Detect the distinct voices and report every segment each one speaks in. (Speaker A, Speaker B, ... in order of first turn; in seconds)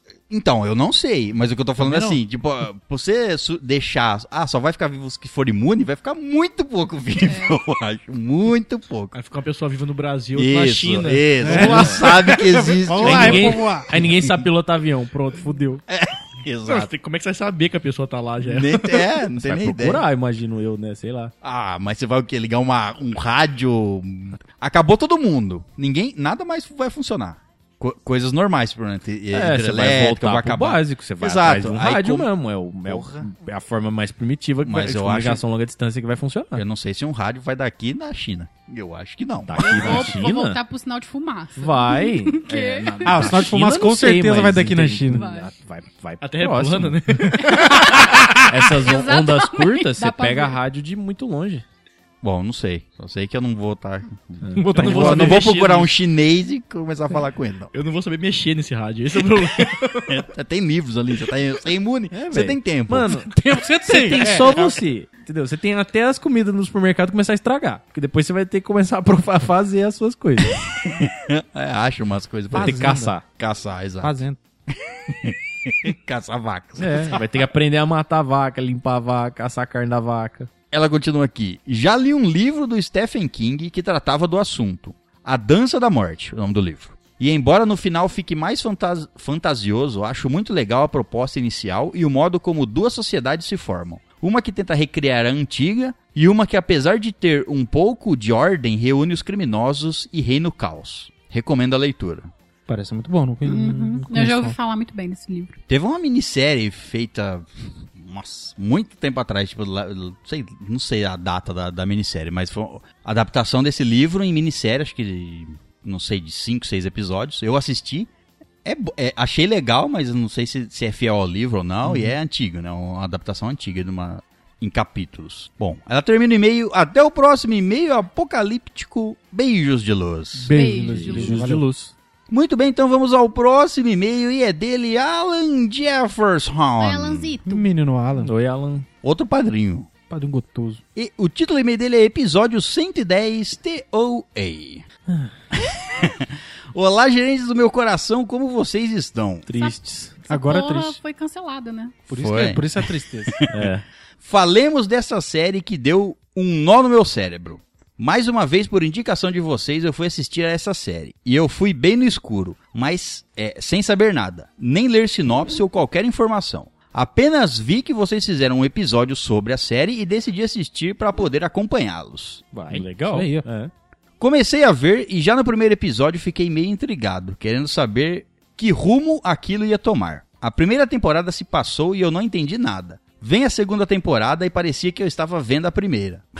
Speaker A: 0.3-9.1, 10.3-14.4, 15.9-16.9, 18.4-20.0, 21.4-32.3, 32.8-33.3, 34.6-35.4, 36.5-40.2, 52.2-57.7, 60.1-63.1, 70.7-74.2, 74.9-77.2, 80.7-102.3, 105.7-118.1, 118.6-130.5, 132.3-137.3, 139.0-139.9, 140.9-144.8, 145.8-149.4, 152.2-153.5, 154.2-172.4, 174.2-186.2
Speaker B: 1.8-2.2, 11.4-13.9, 43.0-45.2, 54.5-55.4, 63.2-64.8, 72.5-73.1, 74.0-74.4, 102.7-104.5, 121.8-122.1, 130.3-131.7, 137.4-138.3, 140.1-140.8, 150.3-151.0, 152.1-153.4, 172.7-173.4
Speaker C: 7.2-7.6, 39.6-43.4, 45.1-45.5, 47.4-50.6, 103.4-105.6, 130.5-131.4, 136.8-137.7, 149.5-152.1
Speaker D: 9.1-12.0, 16.6-19.0, 46.2-47.7, 54.7-55.9, 57.7-60.2
Speaker E: 11.6-12.0, 13.0-15.8, 19.4-21.3, 29.3-36.6, 39.5-40.6, 41.5-51.6, 54.4-54.8, 62.1-63.3, 63.8-70.6, 72.5-73.2, 76.8-80.5, 130.9-131.9, 138.2-138.8, 149.4-150.2, 153.5-153.8, 172.5-173.7